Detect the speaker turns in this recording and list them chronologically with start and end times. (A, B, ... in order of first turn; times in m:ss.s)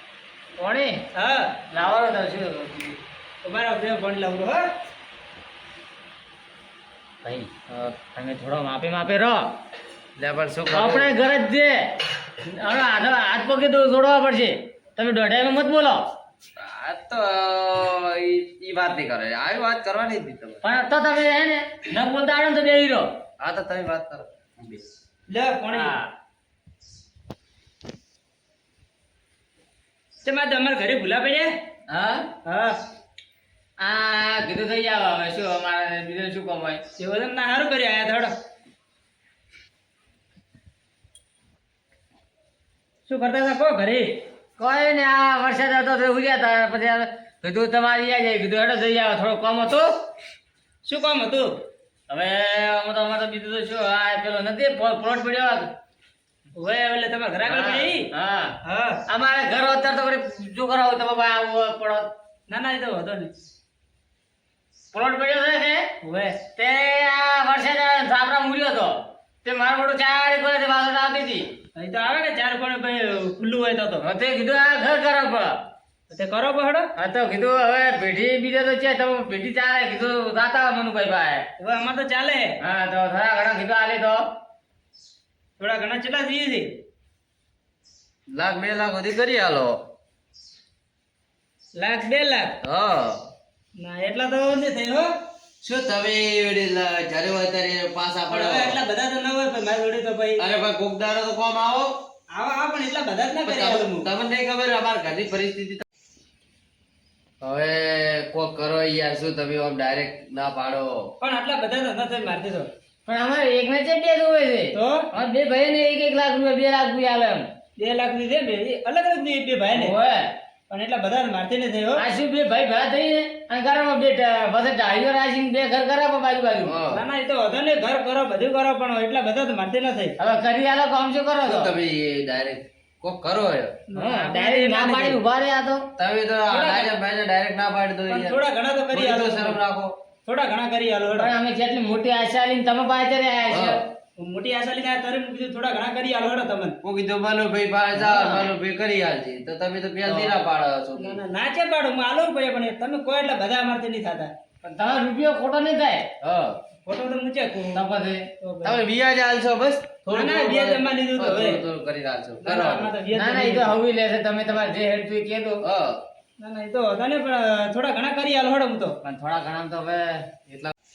0:00.6-0:01.0 A
0:01.2-0:01.5 B
0:01.7-0:03.0 A
0:03.4-0:04.7 B
0:07.2-0:07.5 A
0:07.7-0:08.0 C
0:08.2-0:09.4 A
0:10.2-0:11.1 C
0:10.7-0:11.9 A
0:12.4-0:16.0 A
0:16.6-0:20.6 C
0:20.6-0:23.1 A
0:23.4-0:24.8 C
0:25.3-0:26.0 B
0:25.7-0:26.1 A
0:30.2-0:31.6 B
0:31.9-0:32.3 A
0:32.4-0:32.8 B
0:33.8-0:36.8 A
0:37.0-0:38.4 B
0:43.1-0:44.2 B
0:44.6-0:49.9 A
0:50.8-0:51.5 B
0:52.1-0:55.7 A
0:56.6-0:58.1 B
0:57.5-0:58.6 A
0:58.6-0:59.0 B
0:59.1-1:02.1 A
1:02.5-1:03.3 B
1:04.9-1:05.8 A
1:06.0-1:06.4 B
1:06.6-1:11.5 A
1:11.8-1:14.0 B
1:14.0-1:15.6 A
1:16.1-1:16.9 B
1:17.0-1:21.4 A
1:21.6-1:22.6 B
1:22.6-1:24.2 A
1:25.6-1:26.7 B
1:28.3-1:29.8 C
1:31.8-1:32.6 B
1:32.6-1:33.2 C
1:33.8-1:35.1 B
1:35.6-1:38.8 C
1:38.3-1:40.4 B
1:40.4-1:42.0 C
1:42.3-1:44.1 B
1:43.4-1:45.8 C
1:47.4-1:51.1 C
1:51.2-1:52.7 B
1:53.1-1:57.5 A
1:54.7-1:55.0 B
1:57.8-1:59.9 B
1:59.7-2:00.3 A
2:00.7-2:02.0 B
2:02.0-2:06.8 A
2:06.6-2:07.0 C
2:06.9-2:10.2 B
2:10.2-2:11.7 A
2:11.4-2:13.8 C
2:13.9-2:15.2 B
2:14.0-2:15.8 A
2:16.0-2:18.4 C
2:16.5-2:16.9 B
2:18.1-2:19.6 B
2:18.9-2:20.0 C
2:20.3-2:21.3 B
2:21.2-2:23.8 A
2:23.5-2:23.8 C
2:24.2-2:26.8 B
2:26.8-2:31.2 C
2:31.0-2:34.3 B
2:34.6-2:36.1 A
2:36.2-2:36.6 C
2:36.9-2:37.8 B
2:37.7-2:38.2 A
2:38.4-2:38.8 B
2:38.6-2:42.9 C
2:40.1-2:41.6 B
2:42.4-2:43.8 B
2:43.1-2:45.6 A
2:45.6-2:46.0 C
2:46.4-2:49.0 B
2:49.0-2:50.2 A
2:50.5-2:50.7 C